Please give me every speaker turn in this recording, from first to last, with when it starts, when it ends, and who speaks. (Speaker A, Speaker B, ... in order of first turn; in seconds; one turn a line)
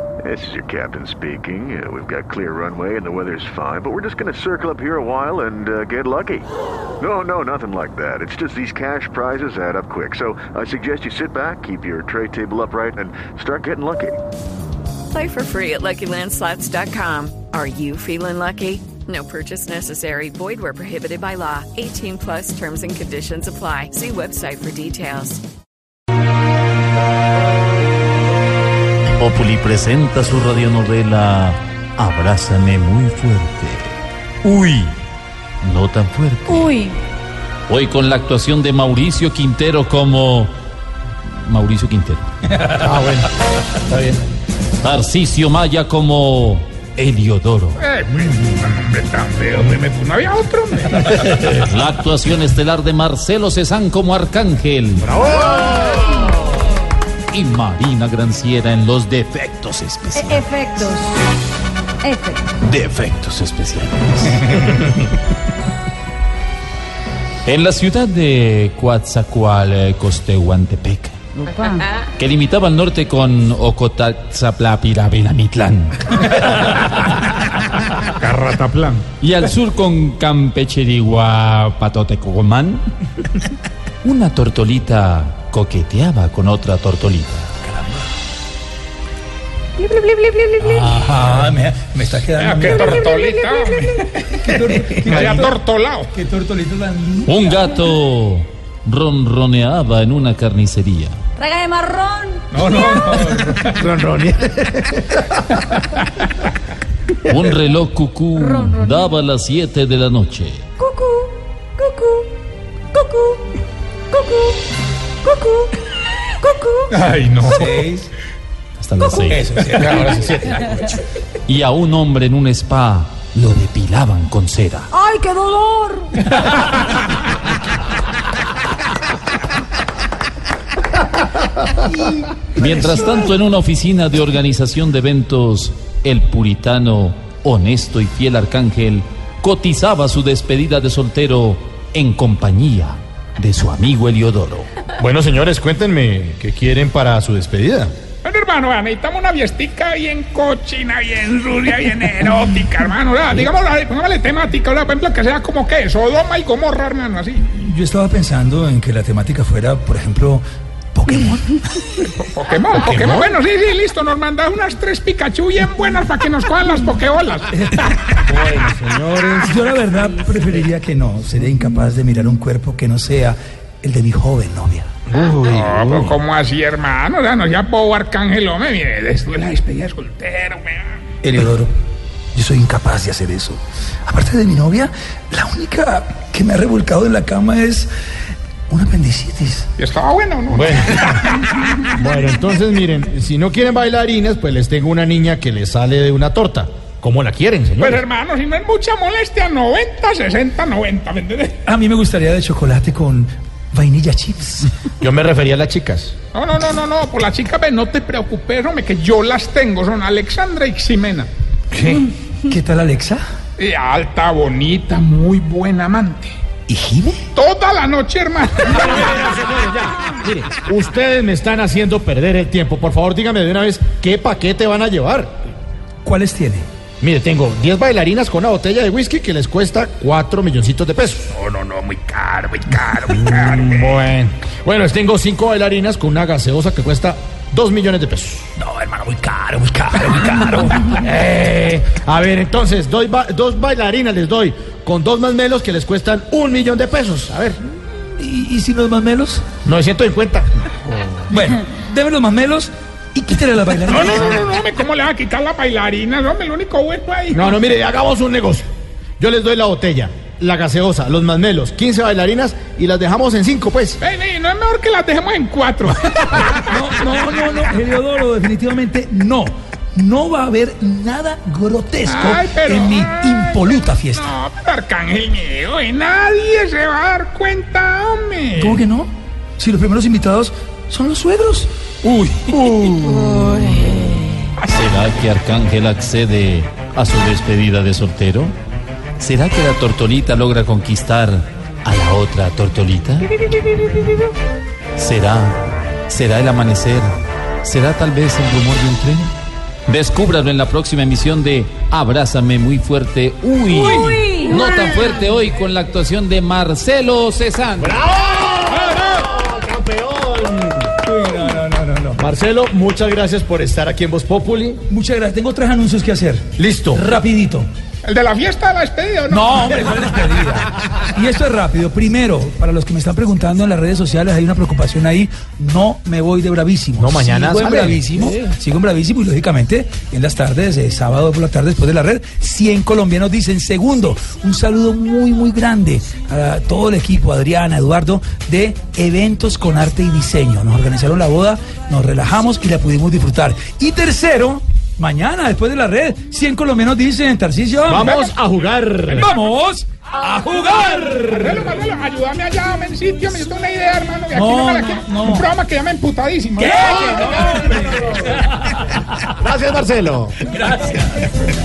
Speaker A: 0.2-14.2
Speaker B: 15.1-25.4
Speaker C: 29.1-34.9
Speaker C: 35.6-36.8
Speaker D: 36.5-37.0
Speaker C: 37.7-40.5
Speaker C: 41.3-42.2
Speaker E: 42.8-44.2
Speaker C: 44.8-47.8
Speaker F: 47.8-51.3
Speaker C: 51.3-55.1
Speaker E: 55.2-56.0
Speaker C: 57.3-60.5
Speaker D: 60.1-61.2
Speaker D: 62.0-62.6
Speaker C: 62.6-65.1
Speaker C: 67.5-71.6
Speaker D: 71.5-71.8
Speaker C: 72.2-77.5
Speaker F: 78.2-79.0
Speaker C: 79.2-82.8
Speaker C: 84.0-87.5
Speaker D: 89.8-90.8
Speaker G: 90.6-93.1
Speaker F: 92.4-96.1
Speaker D: 92.8-94.0
Speaker G: 94.3-95.6
Speaker G: 96.1-97.6
Speaker C: 97.3-101.2
Speaker D: 101.4-103.4
Speaker F: 102.5-103.8
Speaker E: 103.7-105.2
Speaker C: 107.2-110.6
Speaker D: 108.3-109.1
Speaker D: 110.8-112.3
Speaker D: 112.9-113.5
Speaker D: 114.1-117.0
Speaker F: 116.9-117.7
Speaker G: 117.5-118.1
Speaker C: 118.8-119.6
Speaker D: 119.0-119.3
Speaker G: 119.3-120.1
Speaker F: 119.8-120.6
Speaker C: 121.5-124.9
Speaker D: 124.9-126.9
Speaker G: 131.7-133.2
Speaker C: 132.5-144.7
Speaker E: 145.0-147.9
Speaker F: 148.2-157.4
Speaker G: 157.4-160.4
Speaker G: 160.9-161.8
Speaker F: 162.1-167.5
Speaker E: 162.7-163.3
Speaker G: 167.5-168.0
Speaker E: 168.2-169.5
Speaker G: 169.4-175.0
Speaker E: 175.1-176.2
Speaker F: 175.4-181.0
Speaker G: 181.2-181.7
Speaker G: 182.3-187.9
Speaker G: 188.7-189.7
Speaker F: 189.8-191.9
Speaker E: 190.5-198.0
Speaker F: 197.8-201.6
Speaker G: 201.7-204.7
Speaker E: 205.0-206.1
Speaker F: 206.3-211.3
Speaker G: 211.7-213.2
Speaker F: 213.6-216.3
Speaker G: 216.7-217.2
Speaker F: 217.3-219.1
Speaker E: 218.7-225.3
Speaker G: 226.0-226.7
Speaker E: 227.0-231.3
Speaker F: 231.3-234.1
Speaker E: 233.1-238.5
Speaker G: 238.6-240.9
Speaker E: 240.9-247.6
Speaker G: 247.9-249.4
Speaker E: 249.6-250.5
Speaker G: 251.3-254.4
Speaker F: 253.9-257.5
Speaker E: 257.3-258.7
Speaker E: 259.2-264.0
Speaker F: 264.0-266.8
Speaker G: 266.6-274.3
Speaker F: 272.1-273.6
Speaker F: 274.1-278.8
Speaker G: 278.6-281.7
Speaker F: 282.1-283.2
Speaker D: 283.2-283.7
Speaker C: 284.7-288.6
Speaker C: 289.2-293.5
Speaker C: 294.9-299.3
Speaker C: 299.9-308.1
Speaker D: 303.7-304.7
Speaker E: 307.8-310.9
Speaker G: 311.0-312.2
Speaker E: 312.2-314.8
Speaker G: 314.9-317.7
Speaker E: 316.6-317.0
Speaker F: 318.0-320.1
Speaker G: 319.3-348.2
Speaker E: 327.0-328.4
Speaker E: 347.9-349.3
Speaker G: 349.1-351.6
Speaker F: 351.3-357.7
Speaker G: 354.3-355.5
Speaker G: 356.6-359.2
Speaker E: 359.4-360.4
Speaker G: 360.4-361.3